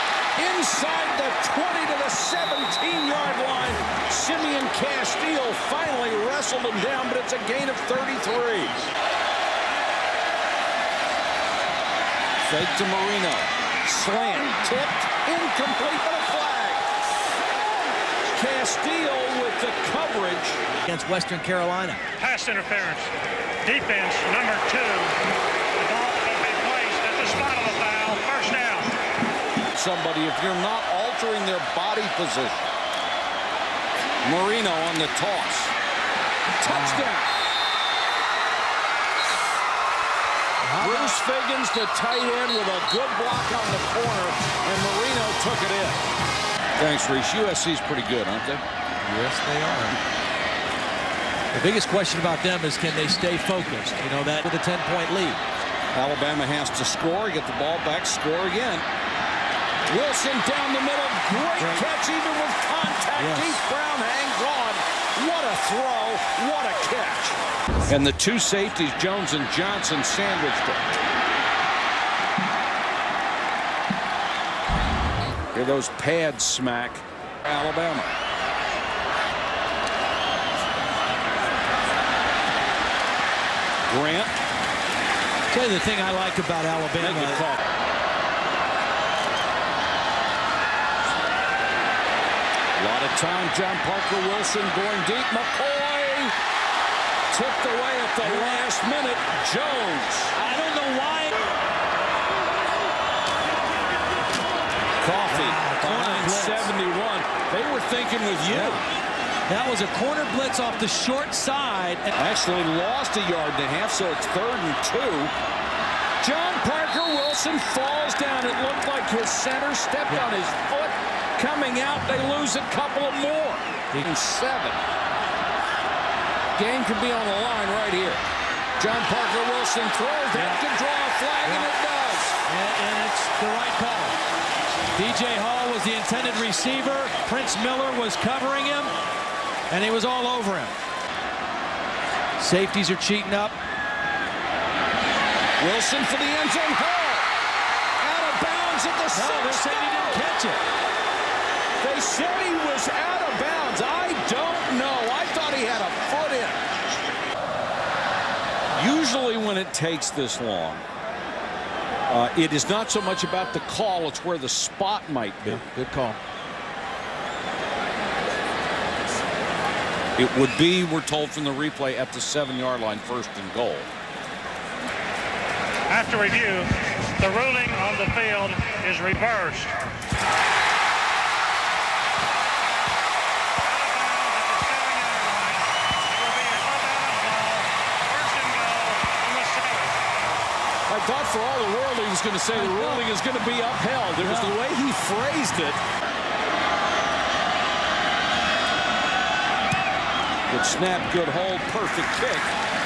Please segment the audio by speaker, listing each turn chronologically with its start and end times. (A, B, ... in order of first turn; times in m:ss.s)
0:00.4-0:08.7 A
0:12.4-0:16.8 A
0:18.3-0:20.6 A
0:20.8-0:22.0 B
0:22.2-0:23.1 C
0:23.6-0:25.2 C
0:25.8-0:28.9 C
0:29.7-0:32.7 A
0:34.2-0:35.7 A
0:36.6-0:37.2 A
0:36.6-0:37.1 B
0:40.6-0:41.2 B
0:40.8-0:46.0 A
0:46.8-0:48.6 A
0:49.0-0:50.0 B
0:51.5-0:55.4 B
0:55.9-0:58.8 A
0:59.9-1:11.0 A
1:01.6-1:01.8 B
1:03.2-1:03.6 B
1:15.5-1:18.1 A
1:23.9-1:24.4 A
1:25.5-1:27.4 B
1:27.0-1:27.6 A
1:32.8-1:36.3 A
1:37.3-1:40.3 A
1:38.2-1:38.7 B
1:40.3-1:41.4 B
1:45.0-1:48.8 A
1:45.3-1:46.7 B
1:48.4-1:48.8 B
1:49.5-1:52.1 B
1:52.2-1:55.3 A
1:56.2-2:04.8 A
2:06.6-2:08.2 A
2:08.8-2:12.4 A
2:10.3-2:10.6 B
2:11.4-2:11.7 B
2:12.4-2:14.2 B
2:14.9-2:18.9 B
2:19.7-2:20.8 B
2:22.4-2:23.5 B
2:25.6-2:27.3 A
2:28.0-2:30.2 A
2:29.1-2:30.6 B
2:31.8-2:36.6 A
2:38.7-2:40.8 A
2:42.1-2:45.7 A
2:45.4-2:46.2 B
2:50.2-2:53.9 A
2:55.9-2:59.9 C
3:03.6-3:10.0 C
3:10.9-3:15.8 A
3:12.5-3:13.1 B
3:14.2-3:14.6 B
3:20.5-3:22.5 A